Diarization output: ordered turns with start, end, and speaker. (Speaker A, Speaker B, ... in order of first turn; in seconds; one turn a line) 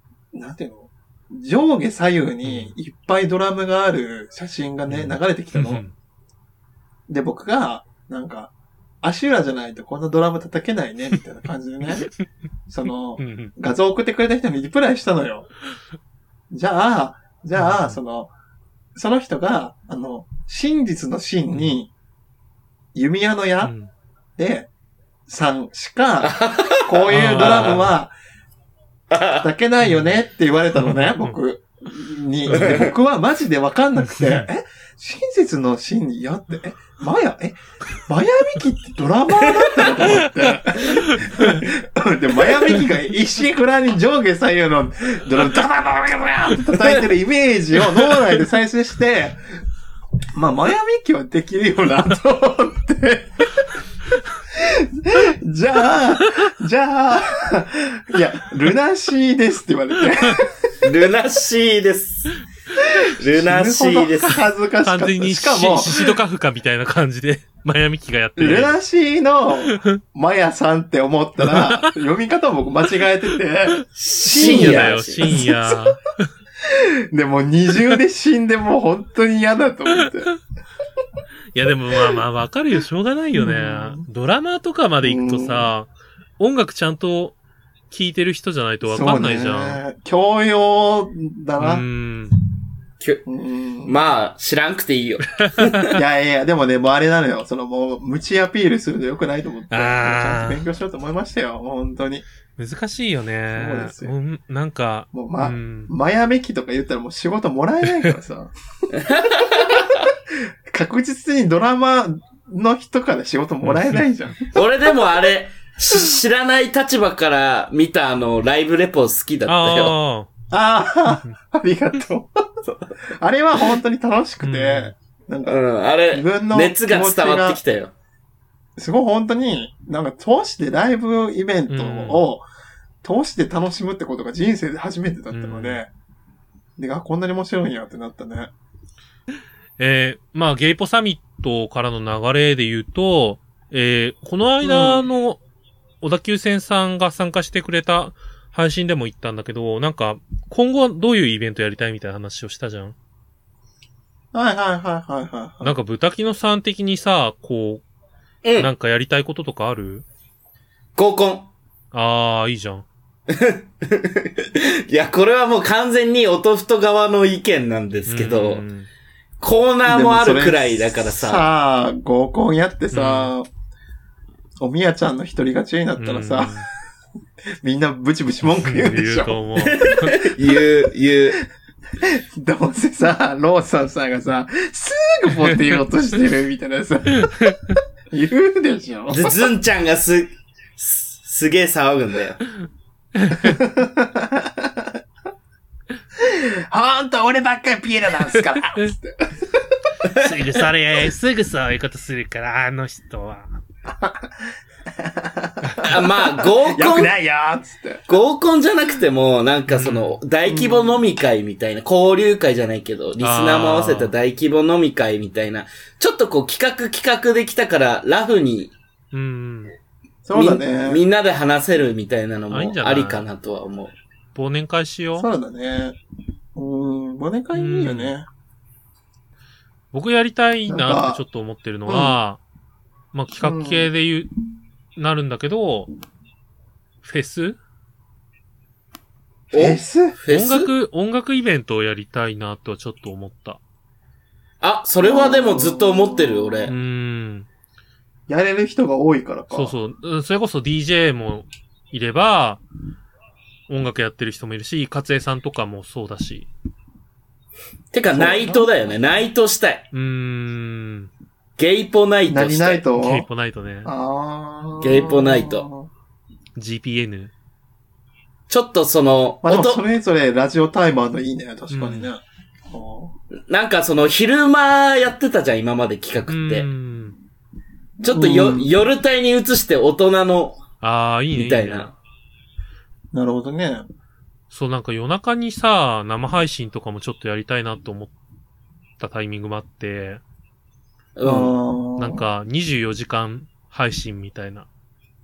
Speaker A: 0.3-5.8
Speaker B: 2.4-2.7
Speaker B: 4.9-5.9
Speaker A: 7.1-12.1
Speaker A: 12.7-15.5
Speaker B: 13.2-13.5
Speaker A: 16.5-18.3
Speaker B: 17.5-18.0
Speaker A: 18.9-21.9
Speaker A: 22.9-23.7
Speaker B: 23.6-23.9
Speaker A: 24.4-24.7
Speaker A: 25.3-28.1
Speaker C: 26.2-27.8
Speaker B: 27.1-27.9
Speaker C: 29.1-29.5
Speaker A: 29.4-49.4
Speaker B: 29.8-30.1
Speaker B: 30.7-31.4
Speaker B: 32.5-32.8
Speaker C: 32.5-32.9
Speaker B: 34.0-34.5
Speaker B: 40.1-41.6
Speaker A: 50.3-53.7
Speaker A: 54.5-60.5
Speaker C: 60.8-62.3
Speaker A: 63.0-66.2
Speaker C: 63.2-64.4
Speaker B: 64.8-68.8
Speaker A: 68.4-75.9
Speaker B: 69.7-70.0
Speaker B: 71.4-71.9
Speaker C: 74.0-75.3
Speaker B: 74.3-76.3
Speaker A: 76.6-80.3
Speaker B: 81.5-87.4
Speaker A: 83.3-84.0
Speaker A: 85.0-85.7
Speaker B: 87.9-89.8
Speaker A: 88.8-91.8
Speaker B: 91.6-92.3
Speaker A: 93.2-94.0
Speaker C: 93.8-95.9
Speaker B: 95.4-95.9
Speaker A: 95.9-102.2
Speaker B: 99.7-100.6
Speaker B: 102.5-105.9
Speaker A: 103.5-104.1
Speaker A: 105.1-114.6
Speaker C: 108.9-110.0
Speaker B: 113.6-114.0
Speaker C: 114.5-119.9
Speaker B: 119.5-120.3
Speaker A: 120.5-127.6
Speaker B: 124.4-124.9
Speaker C: 125.5-127.9
Speaker A: 128.8-132.4
Speaker B: 131.7-132.2
Speaker A: 133.0-135.9
Speaker B: 135.3-135.8
Speaker A: 136.8-138.5
Speaker B: 139.8-145.4
Speaker A: 144.6-145.1
Speaker B: 146.0-152.9
Speaker A: 154.3-155.8
Speaker B: 155.6-157.8
Speaker C: 158.4-158.7
Speaker B: 158.6-160.0
Speaker C: 160.9-161.5
Speaker B: 161.9-162.8
Speaker C: 163.3-168.6
Speaker B: 168.1-168.9
Speaker C: 169.4-171.4
Speaker A: 169.8-173.5
Speaker B: 172.9-173.3
Speaker A: 174.6-176.6
Speaker B: 176.0-176.7
Speaker A: 177.6-179.7
Speaker B: 178.4-180.2
Speaker C: 179.6-181.4
Speaker A: 182.0-187.6
Speaker B: 187.2-187.8
Speaker A: 188.1-189.5
Speaker C: 189.1-192.4
Speaker B: 193.2-193.6
Speaker A: 193.4-195.0
Speaker A: 196.2-199.8
Speaker B: 198.6-198.9
Speaker B: 200.0-203.6
Speaker A: 203.9-204.3
Speaker A: 204.9-208.0
Speaker C: 205.8-207.1
Speaker C: 208.1-218.7
Speaker B: 209.7-210.2
Speaker A: 210.4-211.0
Speaker B: 213.2-214.1
Speaker B: 219.1-219.7
Speaker A: 220.2-221.0
Speaker C: 220.3-223.9
Speaker B: 222.5-223.2
Speaker B: 224.3-225.3
Speaker A: 225.1-226.0
Speaker A: 226.5-228.3
Speaker B: 227.5-228.1
Speaker B: 229.9-232.4
Speaker A: 230.7-231.2
Speaker A: 231.9-232.2
Speaker B: 233.1-234.3
Speaker A: 233.4-233.9
Speaker B: 234.9-235.9
Speaker B: 237.0-237.6
Speaker C: 239.5-240.7
Speaker A: 239.5-240.2
Speaker B: 240.3-243.6
Speaker C: 244.6-246.7
Speaker A: 245.0-246.7
Speaker B: 246.7-247.5
Speaker A: 248.3-249.7
Speaker B: 249.5-252.6
Speaker B: 253.7-256.5
Speaker C: 257.9-259.9
Speaker A: 258.1-258.9
Speaker B: 259.9-261.1
Speaker C: 261.6-262.8
Speaker A: 262.3-263.3
Speaker B: 263.0-263.9
Speaker A: 263.8-265.9
Speaker C: 264.8-265.7
Speaker B: 266.6-267.3
Speaker C: 268.5-269.8
Speaker A: 269.4-273.1
Speaker B: 271.7-272.1
Speaker C: 273.5-276.7
Speaker B: 276.3-277.2
Speaker C: 278.0-280.6
Speaker A: 278.1-278.7
Speaker B: 280.8-281.9
Speaker C: 281.3-281.9
Speaker A: 283.1-283.9
Speaker B: 284.5-288.1
Speaker B: 289.0-290.2
Speaker C: 291.1-291.6
Speaker A: 291.2-292.2
Speaker B: 292.0-294.7